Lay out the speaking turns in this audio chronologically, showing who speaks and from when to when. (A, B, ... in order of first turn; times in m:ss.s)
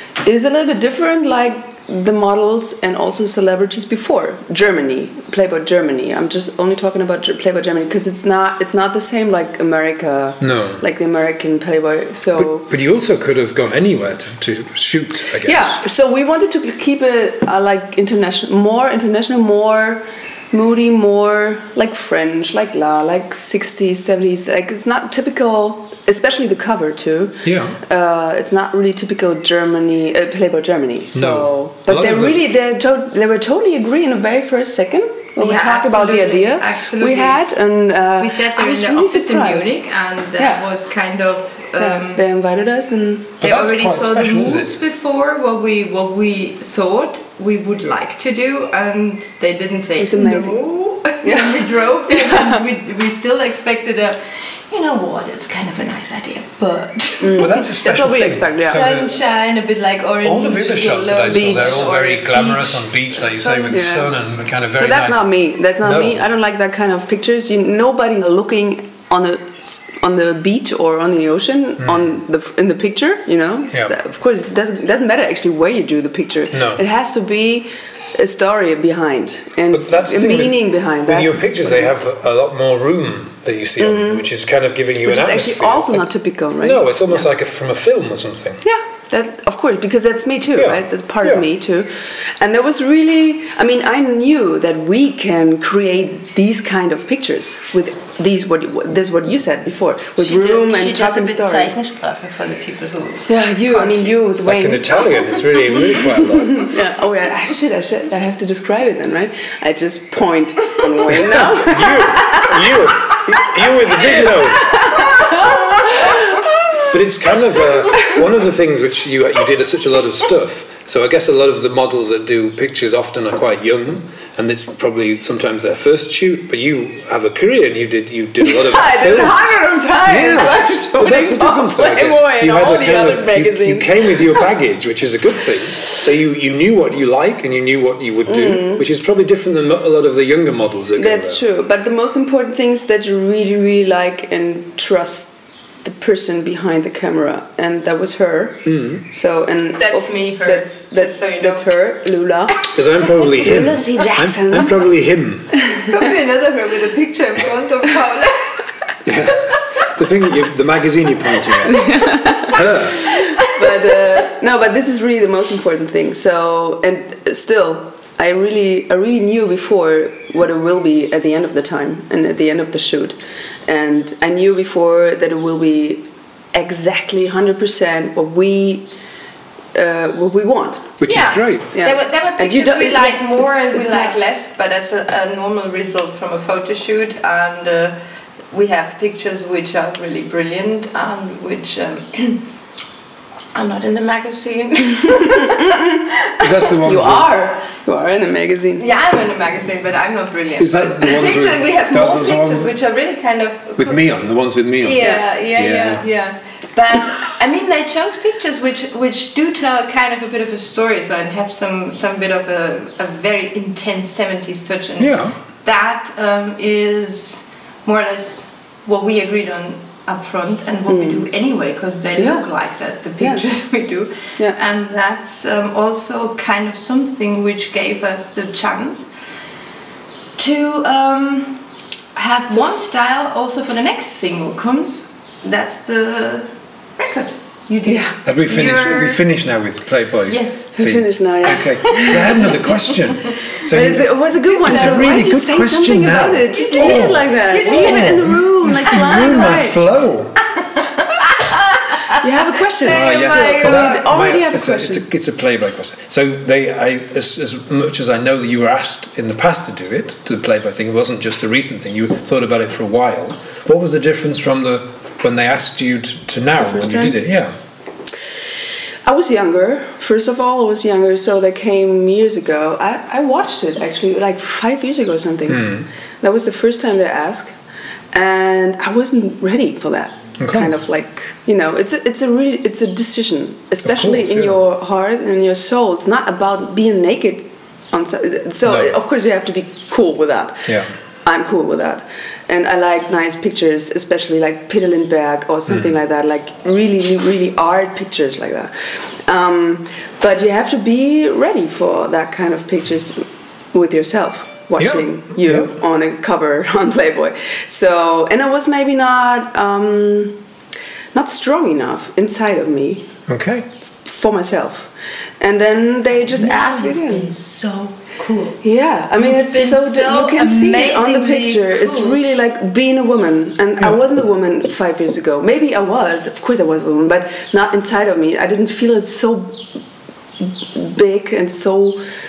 0:00.2-0:12.7 A
0:10.4-0:10.8 B
0:12.3-0:15.8 B
0:15.4-0:39.7 A
0:27.4-0:27.8 B
0:31.1-0:32.4 B
0:35.4-0:37.4 C
0:38.2-0:42.2 C
0:40.4-0:40.6 A
0:41.8-0:43.4 A
0:43.4-0:44.8 B
0:43.4-0:57.5 C
0:50.0-0:50.6 A
0:51.2-0:52.6 A
0:57.2-0:58.8 A
0:57.3-0:59.2 B
0:58.7-1:04.0 C
1:00.2-1:06.2 B
1:01.3-1:01.8 A
1:03.7-1:04.1 A
1:04.8-1:22.0 A
1:11.8-1:12.1 B
1:16.5-1:16.8 B
1:19.7-1:26.1 B
1:23.8-1:24.3 A
1:25.0-1:27.2 A
1:26.6-1:28.6 B
1:28.6-1:41.8 A
1:30.6-1:31.5 B
1:40.2-1:44.2 C
1:43.3-1:45.2 A
1:44.4-1:46.7 B
1:45.9-1:52.8 A
1:51.1-1:55.5 B
1:54.1-1:56.8 A
1:56.9-2:21.4 B
2:08.4-2:14.5 A
2:18.3-2:18.8 A
2:21.0-2:32.7 A
2:28.7-2:29.0 B
2:29.8-2:31.7 C
2:32.7-2:35.5 B
2:33.4-2:34.8 A
2:35.7-2:38.8 C
2:39.0-2:43.1 B
2:41.6-2:58.9 A
2:42.9-2:44.1 C
2:59.7-3:00.9 A
3:01.0-3:01.7 B
3:01.0-3:08.0 C
3:01.7-3:04.2 A
3:08.5-3:12.4 C
3:13.5-3:15.9 C
3:15.0-3:18.8 A
3:16.4-3:17.3 B
3:18.8-3:24.2 C
3:20.6-3:22.7 B
3:23.8-3:26.0 B
3:24.8-3:49.1 C
3:25.0-3:25.2 A
3:35.0-3:35.4 B
3:40.9-3:41.3 A
3:42.2-3:42.4 A
3:50.4-3:51.6 C
3:52.2-3:59.2 C
3:57.8-3:58.2 A
3:58.3-4:10.4 B
4:00.3-4:00.7 C
4:00.8-4:02.4 A
4:01.9-4:02.6 C
4:03.7-4:09.8 A
4:04.4-4:05.0 C
4:06.6-4:08.4 C
4:08.9-4:09.5 C
4:10.8-4:14.1 C
4:12.1-4:15.0 A
4:12.9-4:27.6 B
4:26.6-4:27.2 A
4:29.1-4:37.6 A
4:35.5-4:35.9 B
4:38.1-4:50.7 A
4:40.4-4:40.7 B
4:43.8-4:44.6 B
4:48.6-4:48.9 B
4:51.2-4:58.7 A
4:55.7-4:55.9 B
4:59.2-5:10.4 A
5:04.8-5:05.7 B
5:11.1-5:13.1 A
5:13.3-5:13.7 B
5:14.0-5:17.3 A
5:16.3-5:18.6 C
5:18.6-5:29.6 A
5:19.2-5:22.2 C
5:30.4-5:32.0 A